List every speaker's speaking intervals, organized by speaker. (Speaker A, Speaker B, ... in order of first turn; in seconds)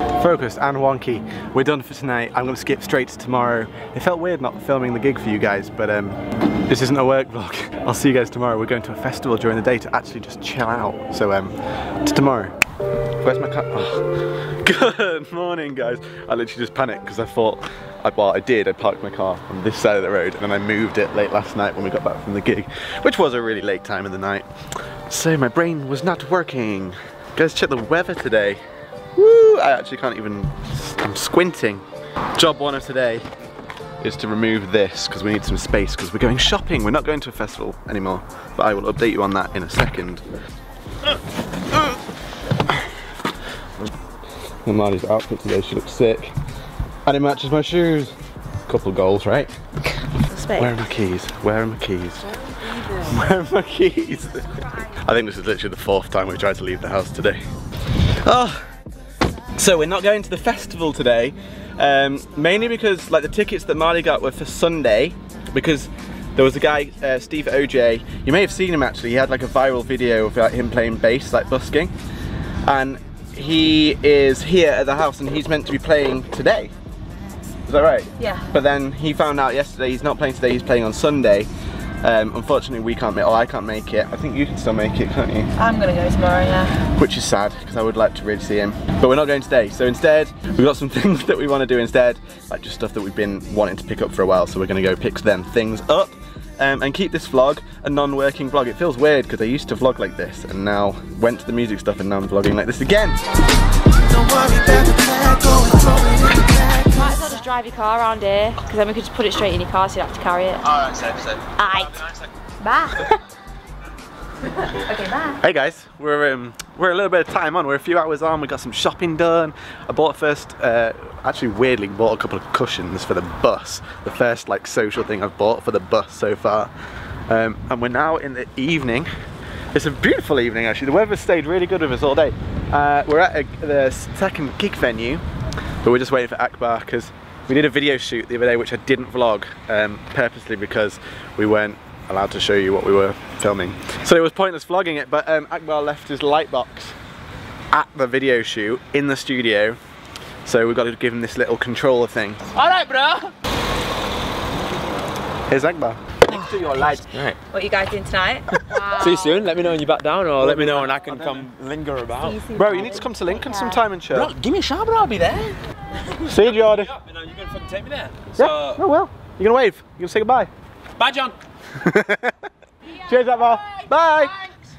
Speaker A: 0.2-12.6, 13.2-24.5, 25.1-28.6, 29.2-31.8, 32.4-33.2, 34.0-40.2, 44.6-46.3, 47.1-48.1, 48.7-49.5, 50.6-57.4, 58.2-58.7, 59.6-71.9, 72.7-76.7, 77.7-81.5, 82.0-85.5, 87.0-103.2, 115.4-126.7, 127.3-129.1, 129.7-135.2, 135.8-146.9, 147.7-149.8, 150.4-152.5, 155.5-157.3, 160.4-161.4, 162.6-164.3, 166.2-166.9, 168.3-170.5, 171.7-172.4, 173.0-174.4
Speaker B: 50.2-50.7, 78.2-78.5, 85.6-86.8, 105.5-105.8, 106.9-110.9, 111.6-112.1, 112.6-113.1, 114.8-115.4, 152.7-153.1, 156.3-159.6, 162.2-163.8
Speaker C: 104.3-107.1
Speaker D: 152.6-153.3, 158.9-162.4, 164.1-165.6, 167.1-168.8, 171.0-171.4